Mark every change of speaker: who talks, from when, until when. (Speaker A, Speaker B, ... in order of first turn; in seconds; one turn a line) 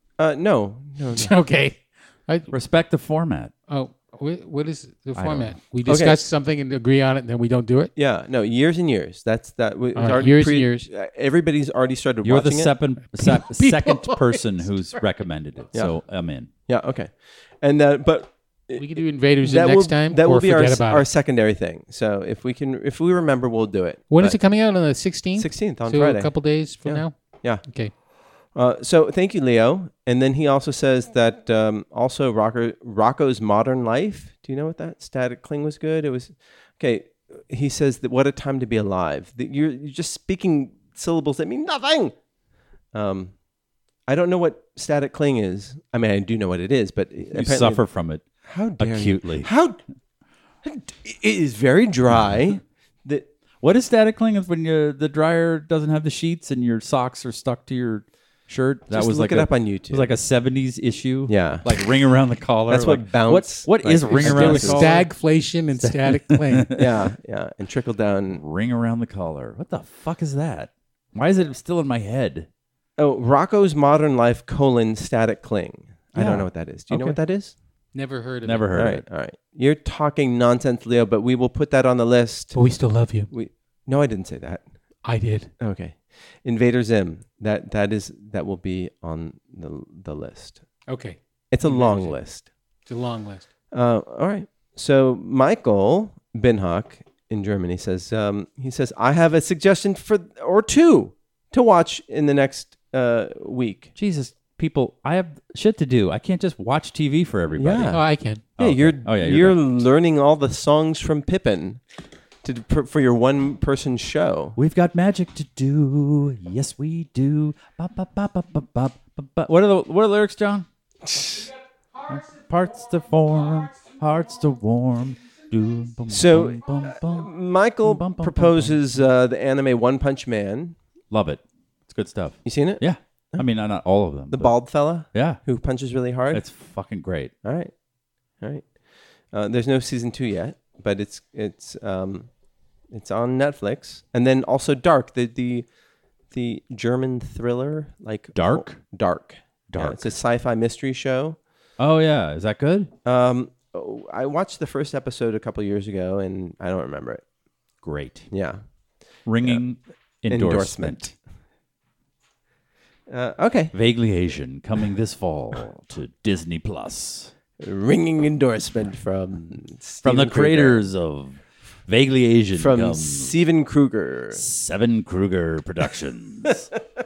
Speaker A: 0.2-1.3
Speaker B: 1.2-2.5
Speaker C: 2.5-3.5
Speaker B: 3.7-7.9
Speaker C: 5.2-5.5
Speaker A: 5.9-6.2
Speaker A: 8.0-12.8
Speaker B: 10.0-10.9
Speaker C: 12.2-16.5
Speaker B: 13.1-14.4
Speaker A: 15.7-16.0
Speaker A: 16.7-18.9
Speaker B: 18.8-21.0
Speaker A: 19.4-24.4
Speaker B: 24.1-27.9
Speaker A: 25.4-27.6
Speaker A: 28.5-42.1
Speaker A: 42.9-43.3
Speaker A: 44.1-47.8
Speaker C: 47.3-48.2
Speaker A: 48.5-49.8
Speaker C: 48.8-49.5
Speaker A: 50.6-53.3
Speaker C: 53.6-65.1
Speaker A: 58.9-60.1
Speaker A: 61.3-61.8
Speaker A: 62.7-65.0
Speaker B: 64.2-66.7
Speaker C: 65.8-67.0
Speaker A: 66.8-68.4
Speaker C: 68.3-72.5
Speaker A: 73.0-77.5
Speaker B: 76.2-76.5
Speaker C: 76.9-77.2
Speaker B: 77.9-78.7
Speaker C: 78.4-79.0
Speaker A: 78.7-82.6
Speaker B: 82.5-83.3
Speaker A: 83.3-84.7
Speaker B: 85.0-85.5
Speaker A: 85.6-90.6
Speaker B: 90.9-92.2
Speaker A: 91.5-92.5
Speaker B: 92.9-93.5
Speaker A: 93.7-103.9
Speaker C: 104.0-108.0
Speaker A: 107.6-111.8
Speaker B: 107.9-108.4
Speaker C: 108.6-109.6
Speaker A: 112.4-114.6
Speaker C: 114.6-120.7
Speaker A: 121.1-121.5
Speaker C: 122.1-128.8
Speaker A: 126.1-130.8
Speaker C: 131.1-134.5
Speaker A: 132.5-133.4
Speaker A: 134.3-136.5
Speaker C: 135.1-135.4
Speaker C: 136.3-137.3
Speaker A: 137.4-137.7
Speaker A: 138.4-138.7
Speaker A: 139.3-142.3
Speaker A: 142.9-145.7
Speaker A: 146.3-151.4
Speaker C: 148.3-148.8
Speaker C: 149.7-150.1
Speaker C: 151.8-152.9
Speaker A: 153.1-157.2
Speaker C: 157.8-158.3
Speaker A: 158.3-158.6
Speaker C: 159.3-161.1
Speaker A: 160.3-161.1
Speaker A: 163.1-163.8
Speaker C: 163.7-167.3
Speaker A: 167.6-170.9
Speaker C: 170.0-173.4
Speaker A: 172.6-174.4
Speaker C: 174.3-176.7